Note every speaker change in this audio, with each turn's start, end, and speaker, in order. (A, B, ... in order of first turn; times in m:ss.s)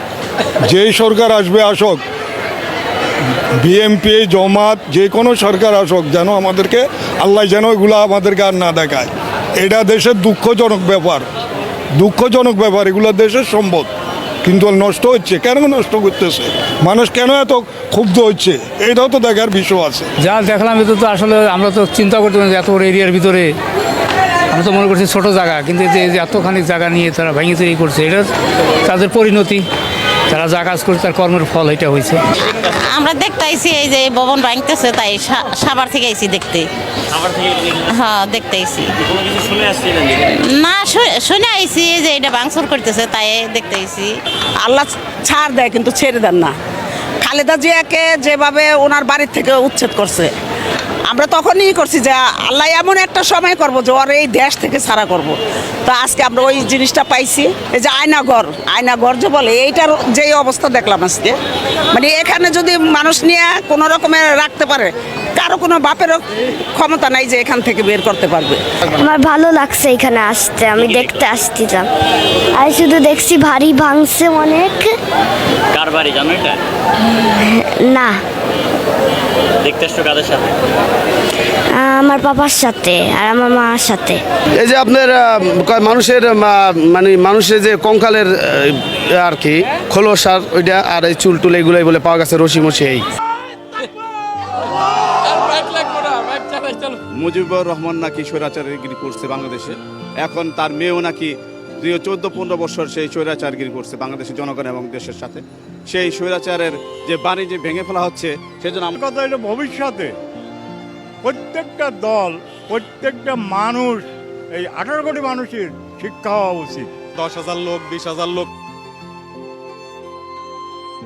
0:00.6-0:02.0 A
0:03.6-0:11.2 A
0:12.0-0:13.9 A
0:14.4-0:20.1 A
0:20.2-0:23.5 B
0:24.5-0:28.3 B
0:28.8-0:29.6 B
0:30.3-0:32.2 B
0:32.7-0:36.7 C
0:37.9-0:38.9 C
0:39.4-0:40.2 D
0:40.3-0:44.1 C
0:44.6-0:46.5 E
0:47.2-0:50.3 E
0:51.1-1:01.4 E
1:01.9-1:08.6 E
1:09.0-1:11.9 F
1:10.8-1:11.2 D
1:12.6-1:15.0 F
1:15.7-1:16.6 D
1:17.4-1:18.2 F
1:19.6-1:20.6 D
1:21.7-1:24.2 F
1:24.6-1:33.0 G
1:37.2-1:48.9 H
1:48.9-1:50.1 I
1:51.2-1:54.0 I
1:54.6-1:56.9 I